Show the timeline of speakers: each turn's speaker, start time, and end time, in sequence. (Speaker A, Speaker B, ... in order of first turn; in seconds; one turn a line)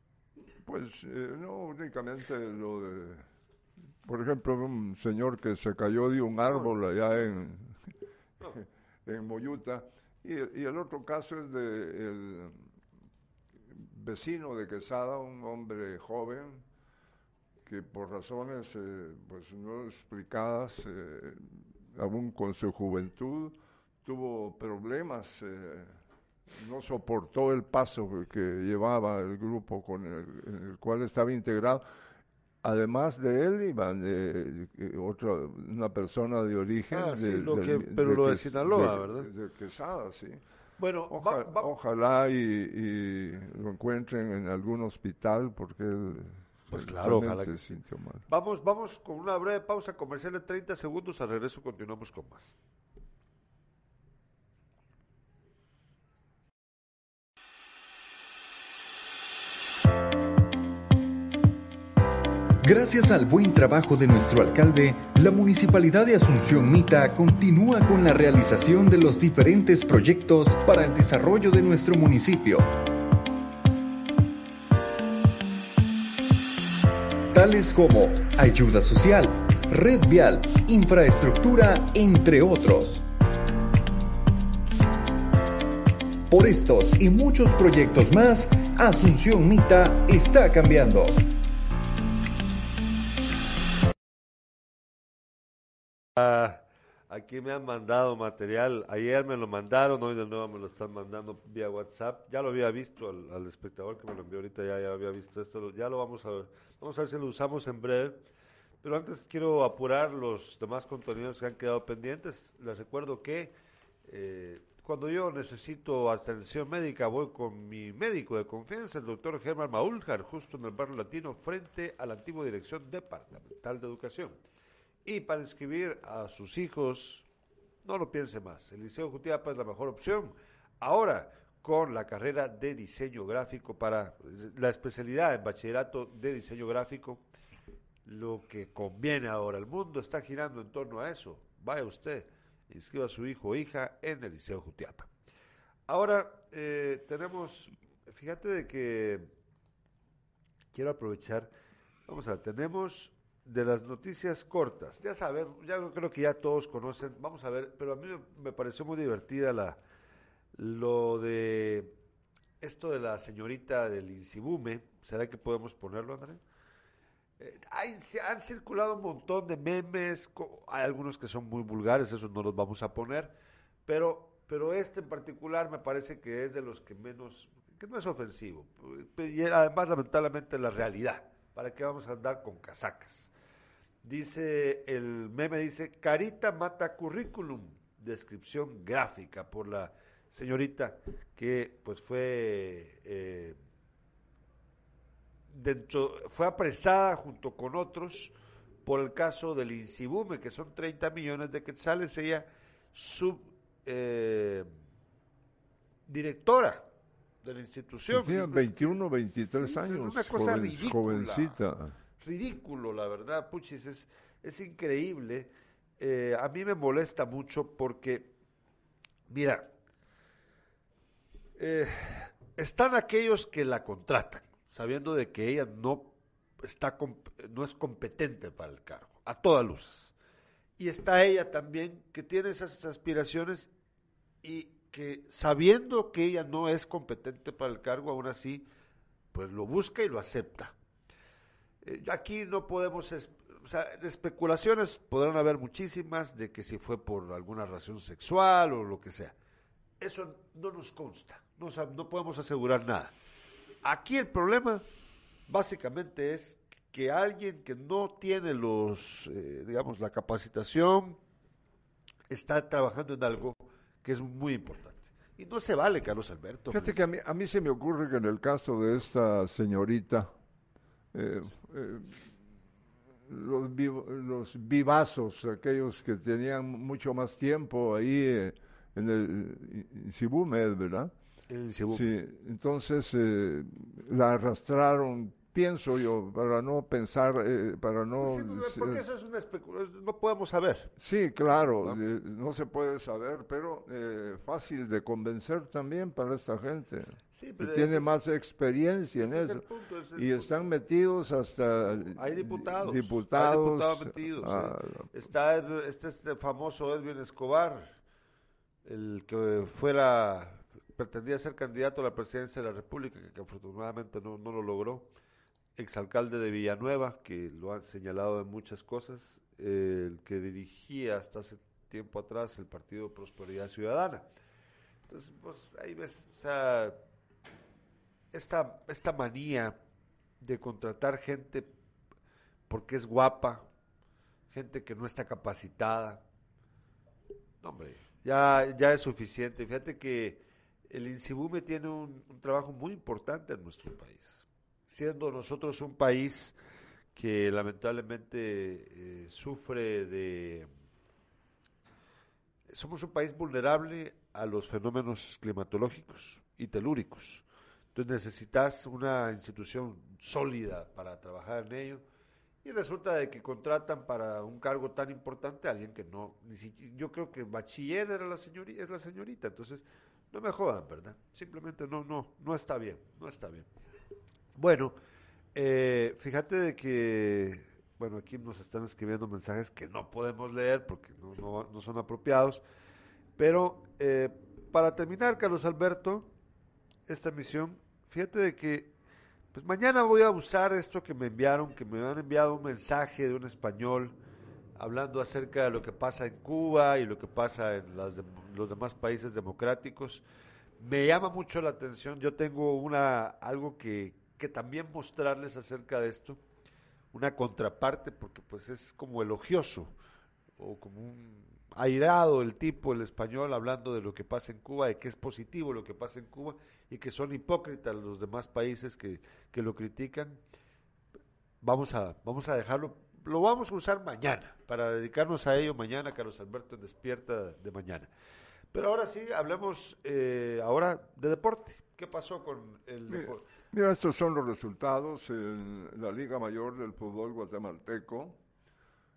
Speaker A: 0.6-3.2
Speaker A: 4.0-7.8
Speaker B: 6.5-6.7
Speaker A: 8.6-12.7
Speaker A: 13.7-16.6
Speaker A: 17.6-26.0
Speaker A: 26.5-31.8
Speaker A: 32.6-40.4
Speaker B: 36.9-39.3
Speaker B: 40.8-41.7
Speaker A: 41.1-48.3
Speaker B: 46.7-47.6
Speaker B: 48.3-52.5
Speaker C: 62.6-72.7
Speaker C: 77.3-83.0
Speaker C: 86.3-91.2
Speaker B: 96.2-108.2
Speaker B: 108.8-113.5
Speaker B: 114.1-124.4
Speaker B: 125.1-127.3
Speaker B: 127.8-137.2
Speaker B: 138.1-145.1
Speaker B: 145.9-149.3
Speaker B: 150.7-151.5
Speaker B: 152.1-159.8
Speaker B: 160.6-162.0
Speaker B: 162.6-166.4
Speaker B: 167.4-173.3
Speaker B: 173.9-183.3
Speaker B: 184.0-193.6
Speaker B: 195.5-198.3
Speaker B: 198.8-204.7
Speaker B: 206.1-206.9
Speaker B: 207.4-211.6
Speaker A: 208.1-212.0
Speaker B: 212.2-218.3
Speaker B: 219.3-219.7
Speaker B: 221.6-230.1
Speaker B: 230.8-233.7
Speaker B: 234.4-238.7
Speaker B: 239.3-240.8
Speaker B: 241.8-249.3
Speaker B: 250.0-253.1
Speaker B: 253.8-254.8
Speaker B: 255.5-261.2
Speaker B: 262.3-267.0
Speaker A: 266.7-270.3
Speaker A: 271.1-272.3
Speaker A: 273.3-281.1
Speaker B: 281.5-282.1
Speaker A: 281.9-289.0
Speaker B: 288.2-290.9
Speaker A: 291.0-299.6
Speaker B: 297.3-298.2
Speaker B: 299.2-300.6
Speaker A: 300.1-305.1
Speaker B: 302.1-308.0
Speaker B: 308.9-315.1
Speaker B: 315.8-324.3
Speaker B: 325.1-327.0
Speaker B: 328.3-329.8
Speaker B: 330.4-331.7
Speaker B: 332.7-333.7
Speaker B: 334.5-336.2
Speaker B: 337.6-346.6
Speaker B: 347.1-350.7
Speaker B: 352.7-362.0
Speaker B: 362.6-373.7
Speaker B: 374.6-375.0
Speaker B: 375.6-382.6
Speaker B: 383.4-386.3
Speaker B: 387.1-388.9
Speaker B: 389.5-394.2
Speaker B: 394.8-400.2
Speaker B: 400.8-406.4
Speaker B: 407.1-409.9
Speaker B: 410.6-420.4
Speaker B: 421.6-428.1
Speaker B: 428.7-433.5
Speaker A: 433.1-438.4